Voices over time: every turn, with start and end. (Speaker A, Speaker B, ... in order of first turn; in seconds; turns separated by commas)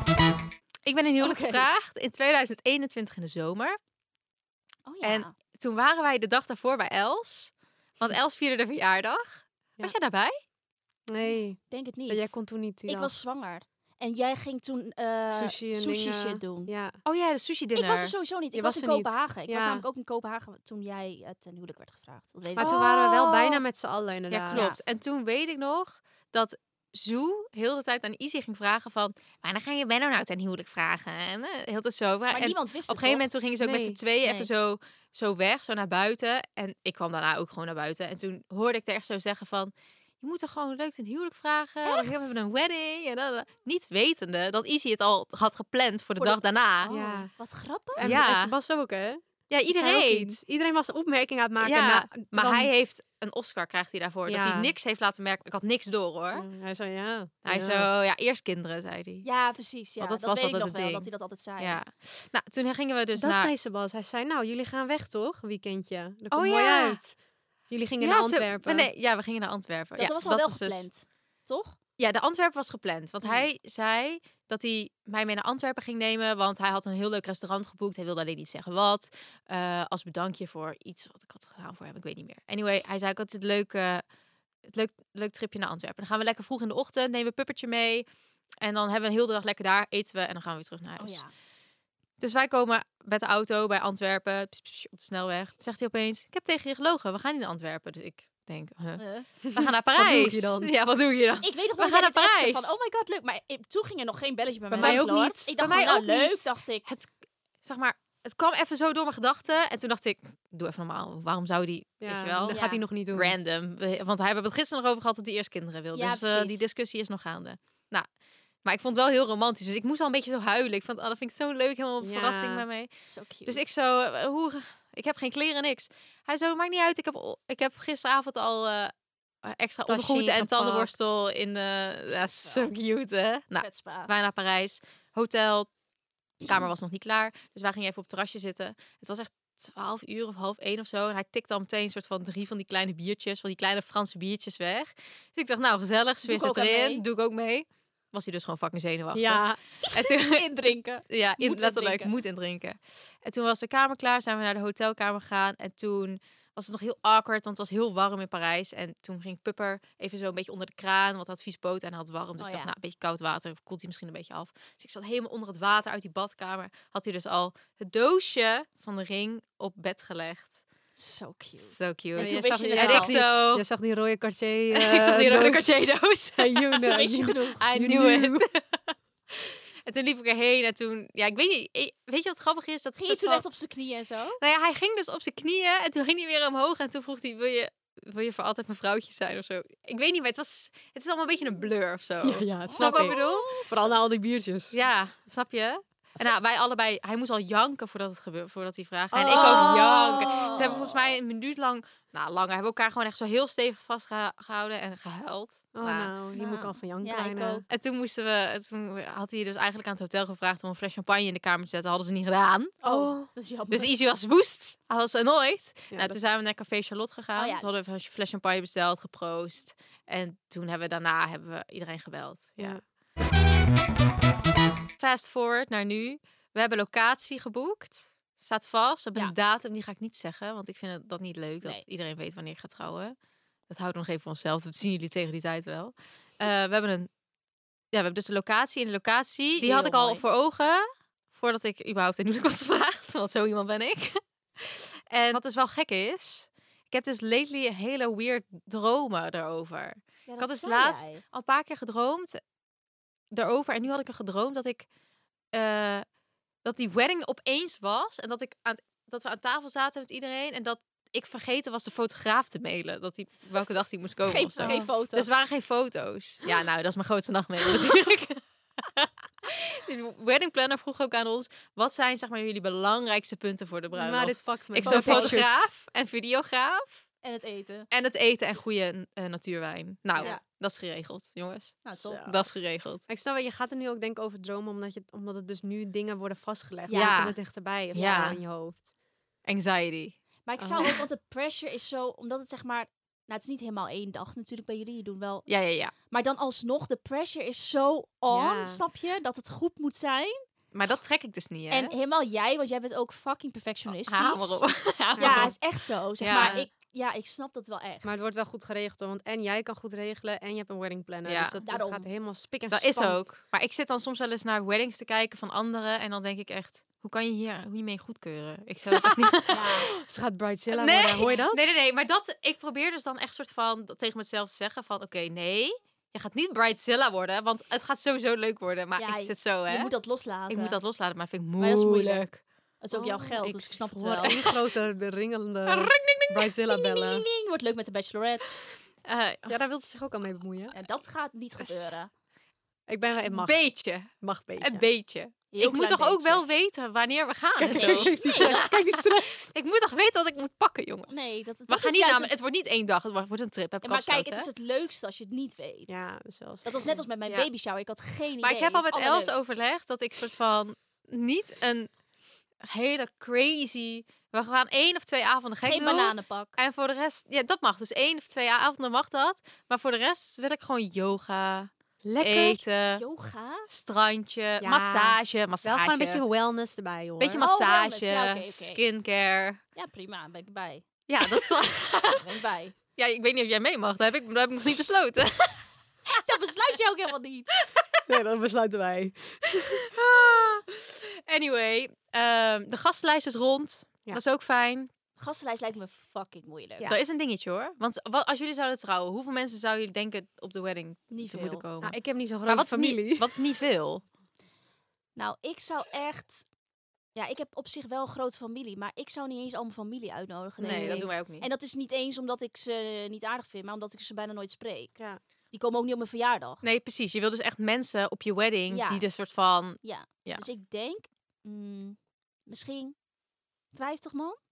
Speaker A: 0.9-3.8, Speaker B: 1.2-1.6, Speaker B: 4.9-5.3, Speaker A: 5.0-10.3, Speaker C: 11.1-13.2, Speaker B: 11.7-12.3, Speaker B: 12.9-16.7, Speaker C: 15.3-17.0, Speaker A: 17.0-18.1, Speaker B: 17.8-22.8, Speaker C: 18.5-19.9, Speaker A: 22.5-23.6, Speaker C: 22.6-24.6, Speaker A: 24.3-46.9, Speaker B: 24.5-24.8, Speaker B: 32.3-33.3, Speaker C: 33.6-34.0, Speaker B: 34.2-34.5, Speaker B: 41.9-42.3, Speaker B: 46.2-48.1, Speaker C: 46.9-47.3, Speaker C: 47.9-52.7, Speaker A: 48.0-48.5, Speaker A: 49.5-50.4, Speaker A: 51.6-56.5, Speaker C: 54.2-54.7, Speaker C: 56.3-57.9, Speaker A: 57.4-59.2, Speaker B: 59.2-61.8, Speaker A: 60.0-63.5, Speaker C: 63.2-67.2, Speaker A: 66.3-67.0, Speaker C: 67.7-68.9, Speaker A: 68.0-70.9, Speaker B: 70.0-71.8, Speaker A: 72.0-84.0, Speaker A: 84.7-88.1, Speaker A: 88.6-91.2, Speaker B: 91.0-91.3, Speaker A: 92.2-102.8, Speaker B: 99.0-99.3, Speaker C: 99.5-100.7, Speaker B: 101.4-106.8, Speaker C: 104.7-105.9, Speaker A: 104.8-107.1, Speaker A: 107.6-118.1, Speaker C: 112.0-113.3, Speaker B: 112.5-112.8, Speaker B: 115.9-116.6, Speaker A: 118.6-122.9, Speaker C: 122.0-122.7, Speaker B: 123.0-123.6, Speaker A: 123.5-128.9, Speaker A: 129.4-135.7, Speaker C: 129.9-131.0, Speaker B: 131.7-132.7, Speaker B: 133.6-134.1, Speaker A: 136.4-150.5, Speaker B: 146.2-147.0, Speaker C: 149.1-149.6, Speaker B: 149.8-152.1, Speaker A: 151.1-170.6, Speaker B: 162.4-162.7, Speaker B: 171.0-173.2, Speaker A: 171.6-173.6, Speaker C: 172.1-178.4, Speaker A: 174.7-177.0, Speaker B: 176.8-177.6, Speaker A: 177.6-183.4, Speaker B: 183.0-184.4, Speaker A: 184.4-193.8, Speaker C: 192.2-194.8, Speaker B: 192.7-193.8, Speaker A: 194.7-206.1, Speaker C: 199.1-200.9, Speaker B: 199.3-201.0, Speaker C: 205.8-207.6, Speaker B: 206.4-207.6, Speaker A: 207.7-212.8, Speaker B: 212.8-213.9, Speaker C: 212.8-213.3, Speaker A: 213.7-222.8, Speaker C: 215.9-216.2, Speaker B: 217.4-217.7, Speaker A: 225.0-233.1, Speaker A: 233.7-237.1, Speaker A: 237.9-252.4, Speaker B: 239.6-240.2, Speaker B: 250.3-251.2, Speaker A: 253.3-254.9, Speaker A: 255.5-256.1, Speaker A: 256.6-277.1, Speaker B: 264.2-265.3, Speaker C: 264.6-264.9, Speaker C: 273.9-275.6, Speaker B: 274.8-275.4, Speaker B: 277.2-277.9, Speaker A: 277.9-283.0, Speaker B: 281.9-282.3, Speaker C: 281.9-282.3, Speaker C: 283.1-288.9, Speaker B: 286.9-287.4, Speaker A: 286.9-287.4, Speaker A: 287.9-288.4, Speaker B: 287.9-288.3, Speaker A: 289.4-290.2, Speaker B: 290.4-295.5, Speaker C: 290.6-291.0, Speaker A: 295.5-295.9, Speaker B: 296.1-300.4, Speaker C: 298.3-298.8, Speaker A: 300.7-301.9, Speaker B: 301.7-304.6, Speaker A: 303.9-305.6, Speaker C: 305.2-305.5, Speaker B: 305.2-308.1, Speaker A: 306.2-306.6, Speaker C: 306.3-306.7, Speaker C: 308.0-313.2, Speaker A: 311.2-311.6, Speaker B: 311.6-312.1, Speaker A: 312.7-319.9, Speaker B: 319.5-319.9, Speaker C: 319.9-321.6, Speaker A: 320.7-329.9, Speaker B: 329.0-330.8, Speaker A: 330.5-332.4, Speaker B: 331.6-332.2, Speaker B: 332.8-334.4, Speaker C: 332.9-337.2, Speaker A: 334.2-334.5, Speaker A: 335.6-336.5, Speaker B: 336.7-338.6, Speaker A: 339.0-339.6, Speaker C: 339.5-340.8, Speaker B: 340.7-342.1, Speaker C: 341.6-341.9, Speaker C: 342.9-344.9, Speaker A: 343.2-351.1, Speaker B: 345.5-346.4, Speaker C: 347.6-349.5, Speaker B: 347.7-348.7, Speaker B: 351.1-352.3, Speaker A: 351.7-354.5, Speaker B: 353.8-356.0, Speaker C: 355.9-357.0, Speaker B: 356.6-359.4, Speaker A: 358.4-361.9, Speaker A: 362.6-373.0, Speaker B: 365.6-366.6, Speaker C: 372.0-372.6, Speaker B: 372.9-373.7, Speaker A: 373.7-376.2, Speaker C: 374.6-377.4, Speaker A: 377.2-379.6, Speaker B: 377.4-378.8, Speaker B: 379.8-380.8, Speaker A: 381.1-382.3, Speaker B: 382.1-382.7, Speaker A: 383.0-385.7, Speaker B: 386.1-387.5, Speaker C: 388.1-389.9, Speaker A: 389.9-394.9, Speaker B: 395.2-396.9, Speaker A: 396.8-404.0, Speaker B: 401.1-401.6, Speaker C: 401.8-403.4, Speaker B: 405.2-406.5, Speaker B: 407.1-414.9, Speaker A: 410.6-411.5, Speaker C: 410.6-411.1, Speaker B: 415.5-416.6, Speaker A: 416.6-420.4, Speaker B: 418.7-419.0, Speaker B: 419.8-423.0, Speaker B: 423.7-424.4